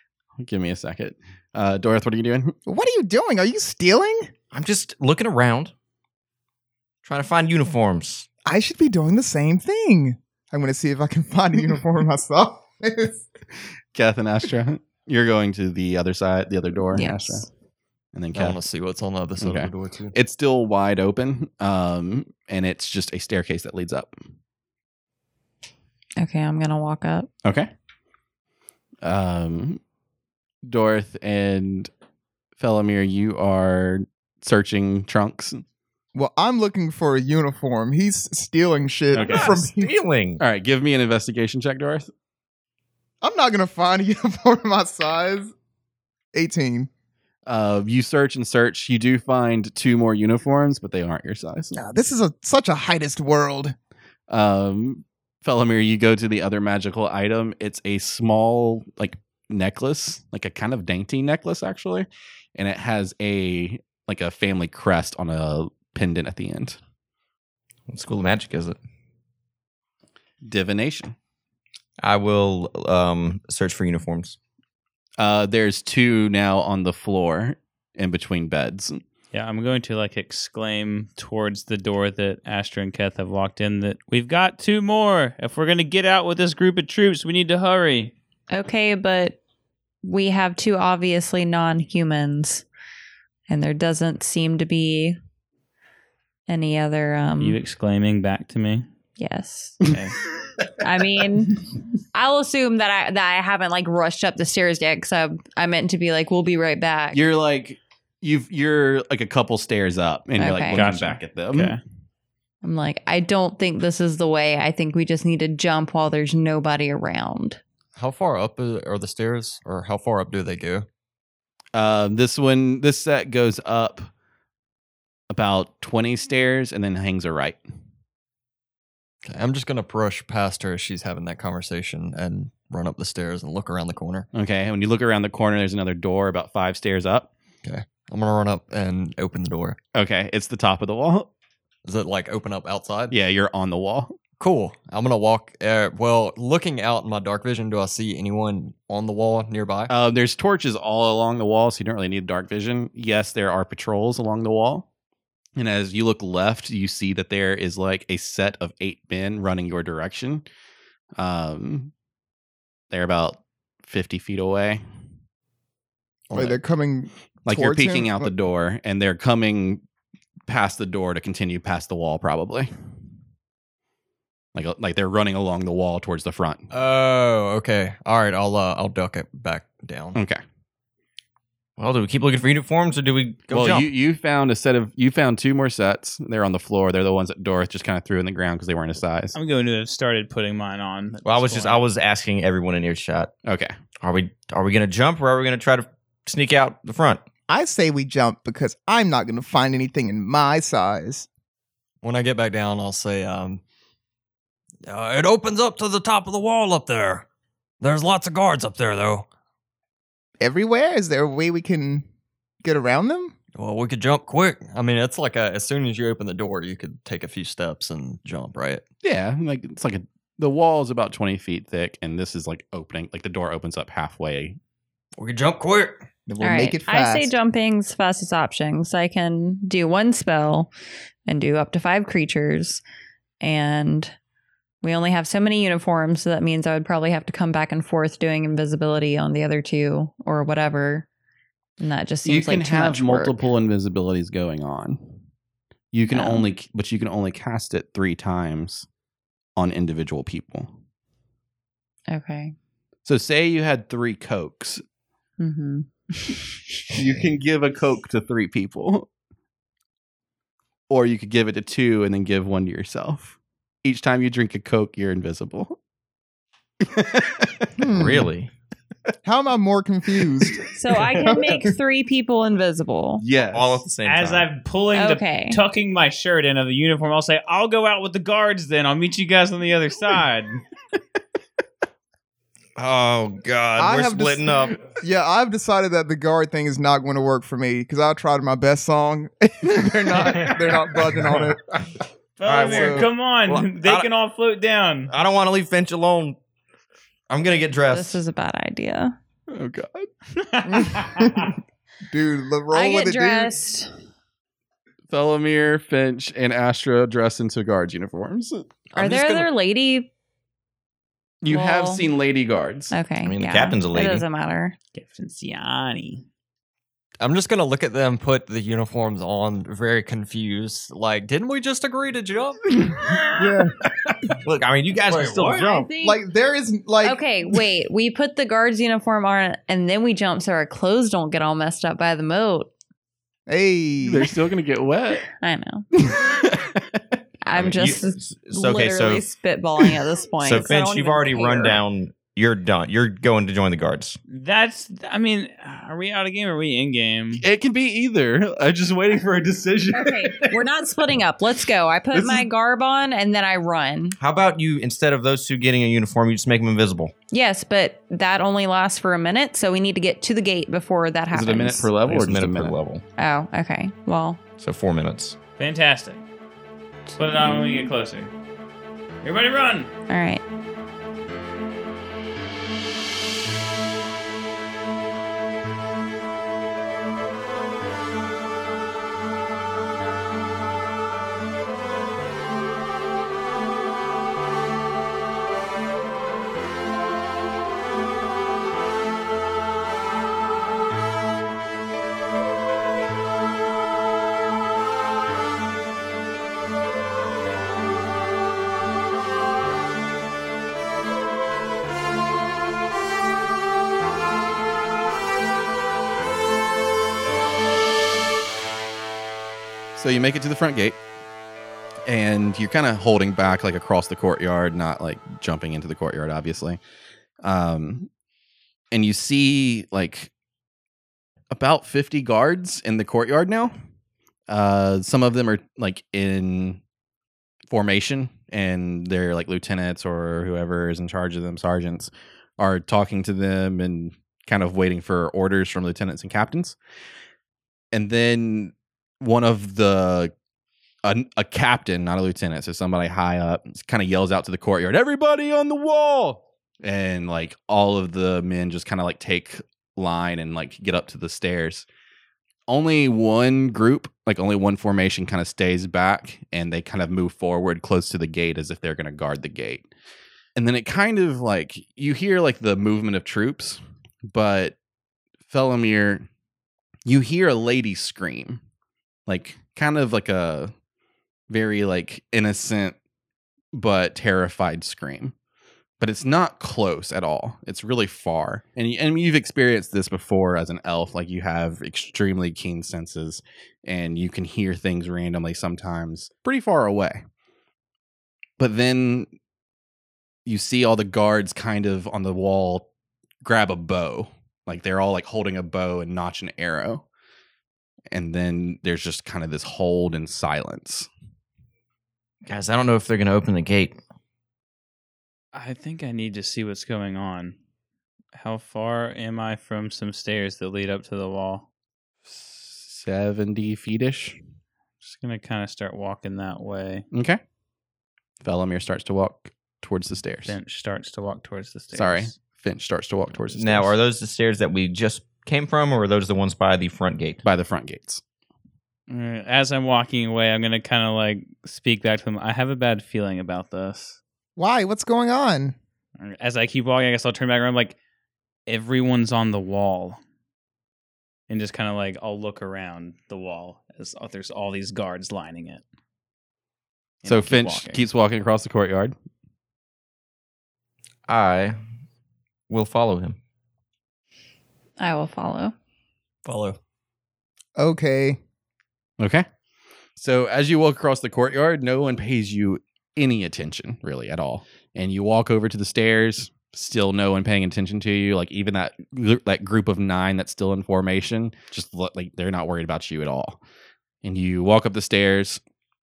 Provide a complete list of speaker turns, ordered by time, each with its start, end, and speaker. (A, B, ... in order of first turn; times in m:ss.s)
0:00.4-0:02.6 A
0:02.6-0:04.3 B
0:04.5-0:05.7 C
0:07.0-0:08.3 C
0:08.4-0:13.2 B
0:13.9-0:17.4 A
0:16.9-0:17.5 D
0:18.1-0:18.6 A
0:18.3-0:20.2 E
0:19.4-0:24.2 A
0:26.2-0:27.3 D
0:27.4-0:27.7 A
0:29.0-0:29.8 A
0:30.6-0:31.9 A
0:32.6-0:35.6 A
0:36.1-0:39.9 B
0:39.1-0:39.6 A
0:39.1-0:40.4 C
0:40.4-0:42.1 A
0:43.2-0:45.5 B
0:46.3-0:46.9 B
0:47.4-0:51.8 A
0:51.7-0:53.7 B
0:54.3-1:06.8 A
1:07.9-1:08.8 C
1:10.4-1:11.1 A
1:12.0-1:14.4 C
1:15.2-1:19.0 A
1:19.3-1:28.1 F
1:28.5-1:29.4 D
1:30.0-1:32.7 D
1:33.5-1:35.2 D
1:36.5-1:37.6 D
1:37.4-1:38.9 F
1:39.2-1:39.9 D
1:39.9-1:40.1 F
1:40.8-1:47.2 D
1:47.1-1:51.8 A
1:50.4-1:50.8 D
1:50.7-1:51.8 F
1:52.6-1:57.6 D
1:58.0-2:00.9 E
2:01.7-2:04.1 A
2:05.3-2:07.6 A
2:09.2-2:14.3 E
2:14.3-2:17.3 A
2:17.6-2:19.8 E
2:19.9-2:21.3 A
2:21.8-2:23.2 E
2:23.1-2:24.1 A
2:24.4-2:29.9 E
2:29.9-2:34.8 A
2:35.6-2:40.4 A
2:41.2-2:41.9 A
2:42.9-2:44.8 A
2:46.3-2:48.3 B
2:47.4-2:49.8 A
2:50.5-2:52.7 A
2:54.5-2:56.7 A
2:56.7-3:00.2 E
3:00.1-3:00.4 A
3:01.8-3:03.9 C
3:03.5-3:09.3 A
3:09.3-3:11.8 F
3:11.2-3:13.3 C
3:13.4-3:13.7 A
3:14.0-3:17.2 C
3:17.5-3:21.3 B
3:22.0-3:23.6 E
3:24.8-3:27.2 E
3:27.8-3:29.3 E
3:30.4-3:32.0 B
3:32.6-3:33.3 B
3:33.5-3:38.8 E
3:39.0-3:44.6 A
3:45.2-3:46.0 E
3:46.3-3:47.3 B
3:46.4-3:50.7 D
3:51.3-3:52.8 D
3:53.4-3:54.1 D
3:54.8-4:01.1 D
4:01.8-4:03.4 D
4:02.2-4:05.2 A
4:05.9-4:08.9 A
4:06.1-4:06.4 D
4:09.6-4:10.7 A
4:12.1-4:12.5 D
4:13.0-4:14.8 A
4:15.4-4:16.4 D
4:16.9-4:19.1 A
4:20.9-4:25.8 A
4:26.8-4:27.7 A
4:27.8-4:28.3 B
4:27.9-4:28.5 C
4:29.2-4:31.7 B
4:30.7-4:33.2 D
4:33.2-4:33.8 A
4:33.5-4:34.5 C
4:34.0-4:40.6 F
4:34.9-4:35.6 D
4:42.8-4:44.8 C
4:43.8-4:51.7 B
4:52.4-4:55.1 F
4:52.4-4:54.1 C
4:52.6-4:53.1 B
4:55.1-4:56.4 C
4:57.3-4:58.2 C
4:57.9-4:59.1 D
4:59.5-5:00.1 A
5:00.4-5:01.4 F
5:00.7-5:01.5 B
5:02.1-5:03.5 B
5:02.7-5:03.9 D
5:05.1-5:09.5 A
5:08.9-5:10.1 D
5:11.4-5:12.9 A
5:11.5-5:12.0 D
5:12.9-5:14.8 D
5:13.2-5:14.2 C
5:14.9-5:16.2 F
5:17.2-5:23.5 E
5:23.4-5:23.7 B
5:24.4-5:25.9 C
5:25.1-5:25.8 E
5:25.6-5:26.2 D
5:26.0-5:27.2 B
5:27.0-5:32.7 D
5:33.5-5:34.3 B
5:34.0-5:35.2 A
5:35.4-5:35.8 D
5:36.0-5:37.0 A
5:37.4-5:41.8 D
5:37.5-5:39.2 C
5:40.4-5:44.2 C
5:44.3-5:47.4 F
5:47.4-5:50.6 A
5:49.9-5:54.2 D
5:52.1-5:52.5 A
5:54.2-5:57.1 C
5:57.3-6:01.9 D
6:01.3-6:02.8 A
6:02.1-6:03.0 C
6:03.2-6:04.4 D
6:04.6-6:05.4 C
6:05.6-6:06.2 F
6:07.2-6:08.3 F
6:09.2-6:09.9 F
6:10.1-6:10.4 D
6:49.9-6:51.0 A
6:52.0-6:56.8 A
6:57.4-6:58.1 A
6:58.9-7:00.3 A
7:01.5-7:03.7 A
7:04.5-7:06.8 A
7:07.7-7:16.8 A
7:17.9-7:20.3 A
7:21.0-7:31.9 A
7:32.7-7:39.9 A
7:40.6-7:44.8 A
7:45.5-7:46.3 A
7:47.0-7:48.6 A
7:49.3-7:50.7 A
7:51.5-7:53.0 A
7:53.7-7:55.3 A
7:56.0-8:07.2 A
8:08.6-8:09.3 A
8:10.4-8:12.9 A
8:13.4-8:17.0 A
8:18.1-8:21.1 A
8:22.4-8:24.0 C
8:25.5-8:27.6 F
8:28.3-8:31.6 F
8:32.2-8:34.4 A
8:35.0-8:37.0 F
8:37.1-8:37.4 A
8:38.4-8:40.5 A
8:40.4-8:42.4 F
8:41.9-8:43.9 A
8:43.5-8:47.4 C
8:47.4-8:48.2 A
8:49.1-8:54.2 F
8:54.6-8:55.8 B
8:56.2-8:58.0 F
8:58.7-9:00.2 F
9:01.5-9:05.8 F
9:07.2-9:08.0 F
9:07.2-9:09.1 A
9:11.3-9:11.8 C
9:12.7-9:13.4 C
9:15.0-9:15.7 D
9:16.4-9:16.8 E
9:17.8-9:18.4 B
9:19.2-9:19.4 A
9:20.2-9:33.6 A
9:34.2-9:35.6 A